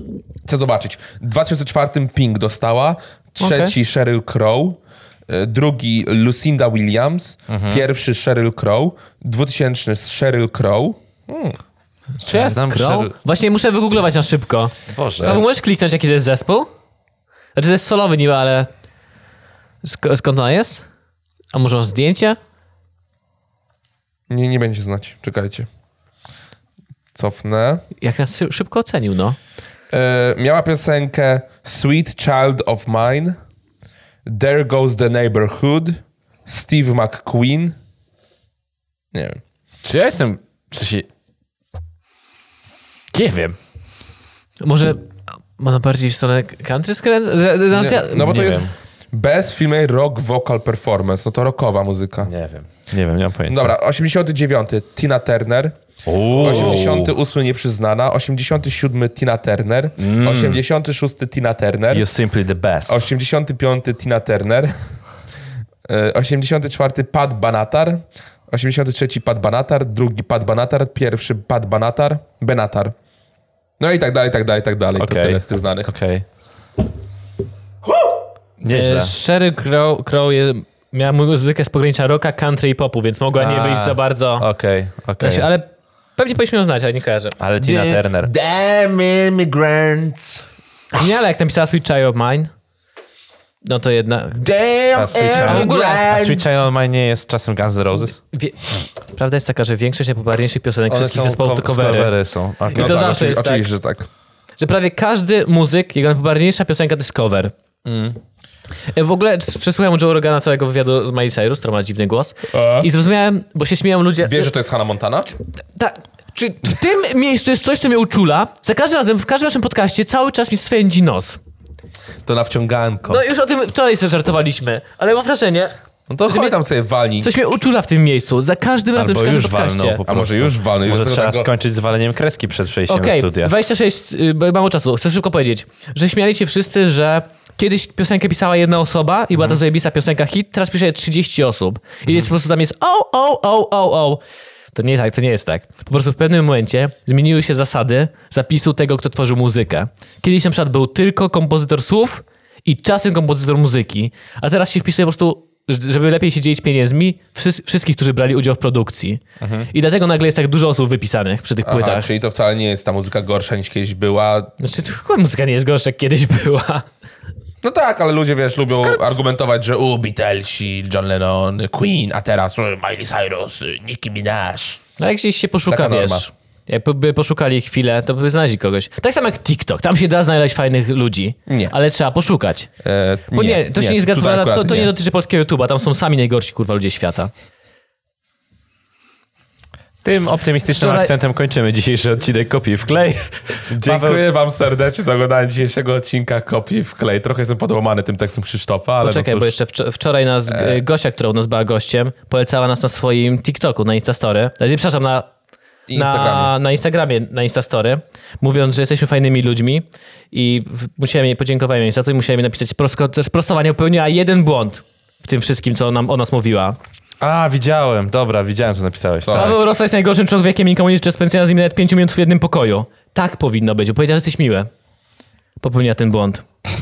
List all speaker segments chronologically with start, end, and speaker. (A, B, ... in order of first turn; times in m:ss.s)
0:00.4-0:11.6 A
0:03.4-0:03.7 B
0:07.5-0:07.8 C
0:12.2-0:13.1 C
0:12.2-0:16.7 B
0:14.9-0:15.4 C
0:17.5-0:18.7 B
0:19.8-0:20.8 B
0:21.5-0:22.4 B
0:24.3-0:25.7 A
0:27.1-0:27.8 A
0:28.0-0:29.4 B
0:29.9-0:33.4 A
0:34.2-0:37.7 A
0:39.1-0:39.4 A
0:39.8-0:41.1 C
0:43.1-0:43.6 C
0:44.6-0:45.0 B
0:45.6-0:48.5 B
0:47.7-0:52.3 A
0:48.1-0:48.7 C
0:52.3-0:53.7 C
0:53.5-0:55.7 A
0:56.0-0:57.1 C
0:56.3-1:02.1 A
1:00.0-1:00.6 C
1:01.9-1:03.0 C
1:02.9-1:04.7 A
1:05.9-1:12.9 A
1:13.8-1:15.9 A
1:15.0-1:16.2 C
1:18.6-1:19.2 C
1:18.7-1:24.5 B
1:23.4-1:25.5 C
1:25.2-1:27.4 B
1:27.4-1:28.3 C
1:27.6-1:30.4 A
1:30.9-1:32.5 B
1:33.6-1:34.5 B
1:34.5-1:36.4 A
1:34.9-1:38.2 C
1:35.2-1:36.2 B
1:38.2-1:38.6 B
1:39.1-1:42.1 B
1:40.9-1:43.4 C
1:42.7-1:43.6 B
1:42.7-1:44.1 A
1:44.6-1:47.5 B
1:47.9-1:48.2 C
1:48.9-1:54.5 B
1:52.5-1:52.9 A
1:54.2-1:55.3 A
1:55.7-2:01.4 B
2:02.2-2:03.2 A
2:03.1-2:05.7 B
2:06.1-2:07.3 A
2:06.3-2:06.6 B
2:07.2-2:10.0 B
2:08.9-2:13.5 C
2:10.1-2:11.5 A
2:12.9-2:24.2 B
2:24.7-2:42.1 B
2:39.4-2:39.7 C
2:41.6-2:44.5 A
2:44.6-2:46.9 B
2:47.6-2:54.8 A
2:48.7-2:49.1 B
2:55.0-3:02.7 B
2:55.7-2:56.2 A
3:01.5-3:01.7 A
3:02.8-3:04.9 A
3:03.3-3:07.3 B
3:10.0-3:14.2 C
3:10.7-3:11.1 B
3:13.7-3:19.5 A
3:19.0-3:25.3 B
3:20.5-3:20.8 A
3:25.9-3:26.5 A
3:25.9-3:36.8 B
3:37.2-3:39.6 C
3:39.2-3:39.6 A
3:39.3-3:44.7 B
3:45.6-3:46.4 B